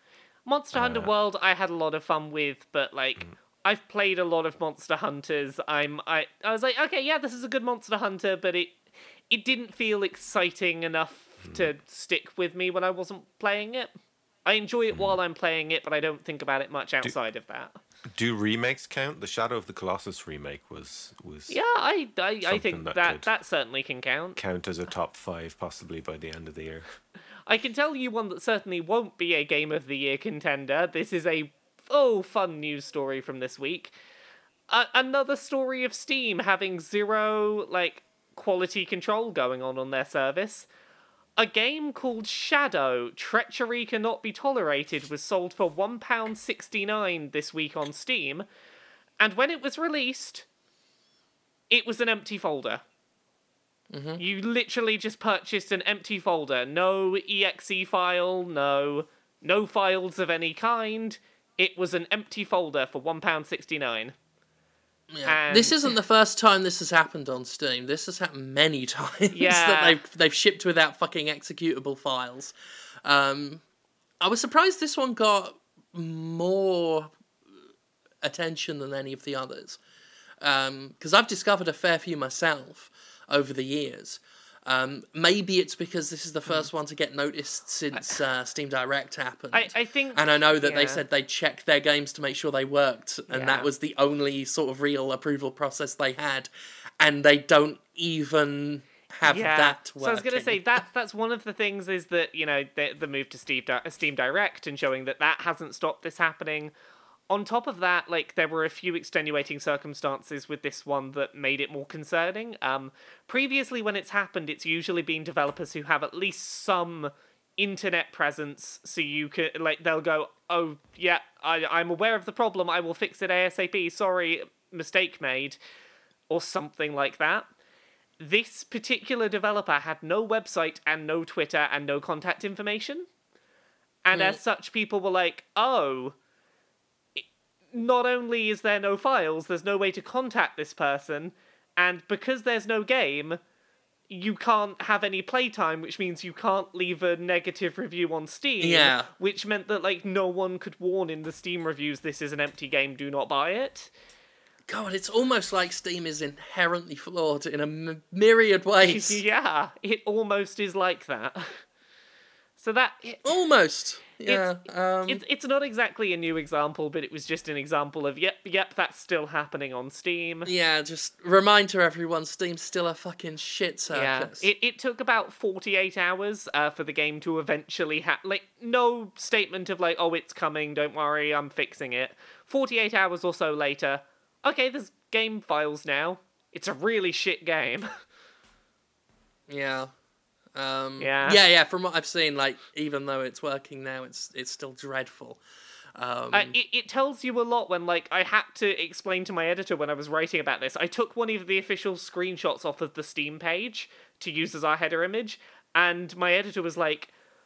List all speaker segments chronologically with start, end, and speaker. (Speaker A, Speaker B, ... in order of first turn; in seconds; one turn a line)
Speaker A: 0.5-13.9
Speaker B: 0.7-1.1
Speaker B: 11.4-11.7
Speaker A: 14.4-17.8
Speaker B: 14.9-15.2
Speaker B: 18.1-21.6
Speaker A: 21.5-24.4
Speaker B: 22.4-23.3
Speaker B: 24.4-26.9
Speaker A: 27.5-33.9
Speaker A: 34.7-40.7
Speaker A: 41.4-48.5
Speaker A: 49.2-50.5
Speaker A: 51.7-52.8
Speaker C: 53.9-54.2
Speaker A: 54.2-64.2
Speaker C: 65.1-72.5
Speaker A: 65.3-65.8
Speaker A: 69.3-70.0
Speaker C: 73.0-73.6
Speaker C: 74.2-77.1
Speaker C: 78.2-79.8
Speaker C: 80.4-100.8
Speaker A: 87.9-88.2
Speaker A: 89.5-91.0
Speaker A: 93.3-93.7
Speaker A: 99.2-106.7
Speaker A: 107.3-125.6
Speaker A: 126.3-127.5
Speaker A: 128.2-133.1
Speaker A: 134.1-136.2
Speaker C: 134.1-134.4
Speaker A: 137.2-143.4
Speaker A: 144.1-153.9
Speaker C: 148.6-149.1
Speaker C: 154.7-159.2
Speaker A: 158.8-161.6
Speaker A: 162.6-163.2
Speaker C: 163.2-165.2
Speaker A: 164.2-164.5
Speaker A: 165.1-170.5
Speaker C: 170.5-174.5
Speaker A: 173.9-187.9
Speaker C: 189.5-189.9
Speaker C: 190.6-195.4
Speaker A: 191.0-191.4
Speaker C: 196.0-196.6
Speaker A: 196.3-207.1